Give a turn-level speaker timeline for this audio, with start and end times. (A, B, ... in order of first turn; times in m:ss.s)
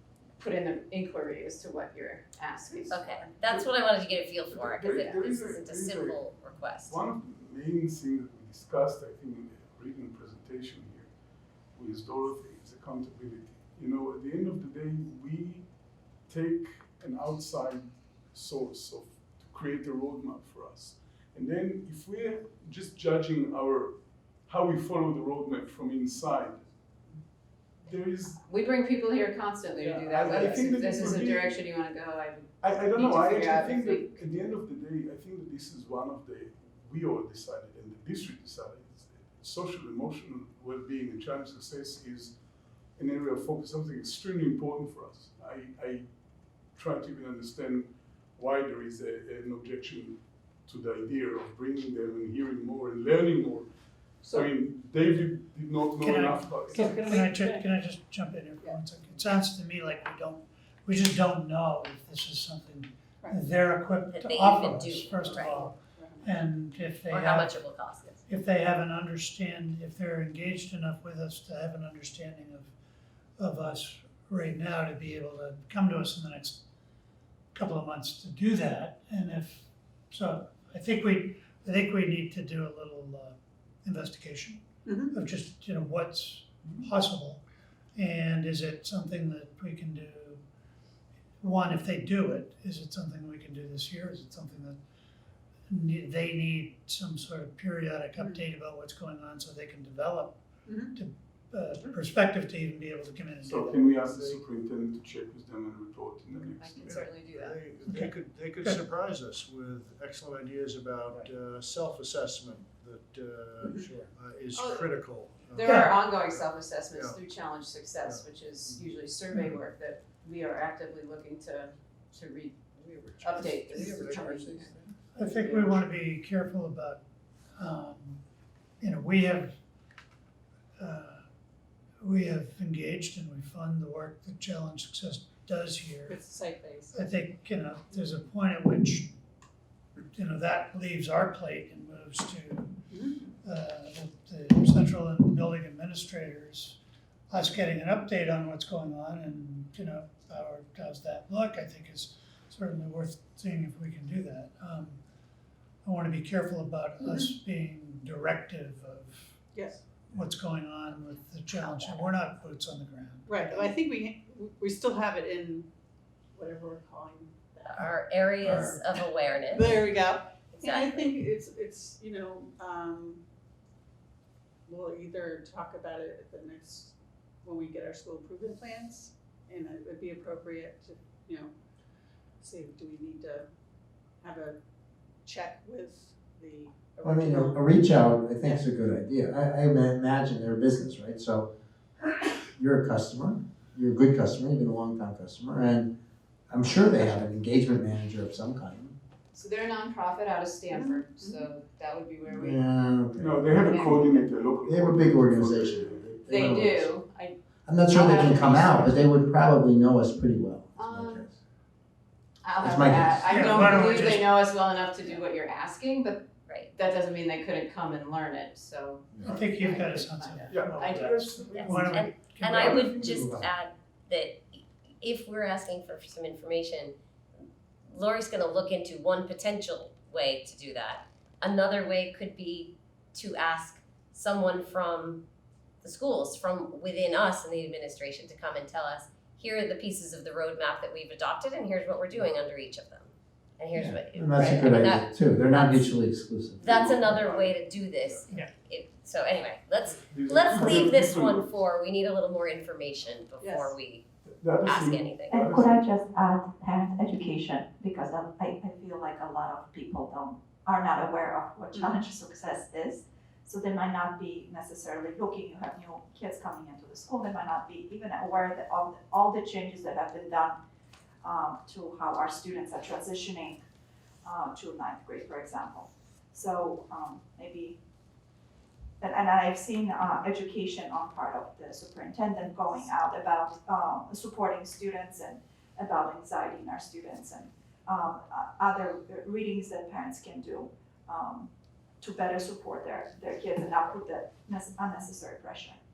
0:00.4-0:03.0 A
0:02.7-0:03.4 B
0:02.9-0:07.0 C
0:04.5-0:06.3 D
0:06.8-0:11.1 D
0:11.8-0:15.7 D
0:16.3-0:24.0 D
0:24.5-0:26.6 D
0:27.8-0:28.4 D
0:28.4-0:34.3 A
0:29.8-0:31.6 D
0:32.6-0:42.4 D
0:43.0-0:46.0 D
0:46.8-0:53.7 D
0:54.2-0:57.1 D
0:54.2-0:54.5 B
0:56.0-1:07.6 E
0:56.8-0:57.7 B
1:04.1-1:05.7 C
1:05.3-1:06.3 B
1:07.1-1:08.2 C
1:08.3-1:12.7 E
1:13.4-1:16.6 E
1:17.5-1:27.4 E
1:24.9-1:25.2 B
1:28.0-1:30.4 E
1:31.4-1:34.8 E
1:35.7-1:44.1 E
1:38.2-1:38.4 B
1:40.7-1:41.0 B
1:43.4-1:47.0 D
1:44.1-1:44.4 F
1:46.6-1:47.6 A
1:46.8-1:57.2 F
1:47.8-1:48.8 E
1:54.5-1:55.0 A
1:55.5-2:04.8 A
1:55.6-1:56.0 E
1:58.0-1:58.8 F
2:03.4-2:04.9 G
2:03.9-2:04.2 F
2:05.1-2:07.0 E
2:07.6-2:08.2 E
2:08.8-2:09.6 E
2:10.8-2:11.2 E
2:12.0-2:16.2 E
2:16.1-2:17.1 B
2:16.9-2:19.1 E
2:20.1-2:26.8 E
2:22.9-2:23.2 B
2:27.3-2:35.0 E
2:35.8-2:39.4 E
2:37.0-2:37.3 B
2:39.5-2:39.8 B
2:40.0-2:43.5 E
2:43.3-2:45.7 B
2:46.4-2:53.2 B
2:47.7-2:50.0 C
2:50.5-2:51.2 C
2:54.7-3:01.5 B
3:02.4-3:03.5 B
3:04.2-3:04.6 B
3:05.2-3:07.9 B
3:07.0-3:11.5 G
3:12.0-3:15.9 G
3:16.5-3:19.0 G
3:19.3-3:22.6 A
3:20.7-3:21.4 B
3:22.3-3:23.8 G
3:23.1-3:26.2 D
3:23.5-3:24.4 A
3:24.6-3:27.0 G
3:26.3-3:27.4 A
3:27.6-3:31.3 G
3:27.9-3:29.0 A
3:30.8-3:31.3 A
3:32.4-3:41.5 A
3:32.6-3:33.7 G
3:33.3-3:34.4 E
3:36.5-3:36.7 C
3:39.2-3:43.4 E
3:40.5-3:43.3 D
3:41.5-3:47.0 C
3:47.9-3:55.2 C
3:55.8-4:05.9 C
4:03.7-4:07.2 G
4:06.6-4:14.0 C
4:06.6-4:08.3 D
4:09.9-4:11.5 D
4:13.4-4:13.8 B
4:14.3-4:15.8 D
4:14.6-4:15.4 C
4:15.3-4:30.6 H
4:21.7-4:22.1 B
4:31.2-4:33.6 H
4:34.2-4:37.8 H
4:39.0-4:51.5 H
4:52.0-4:55.8 H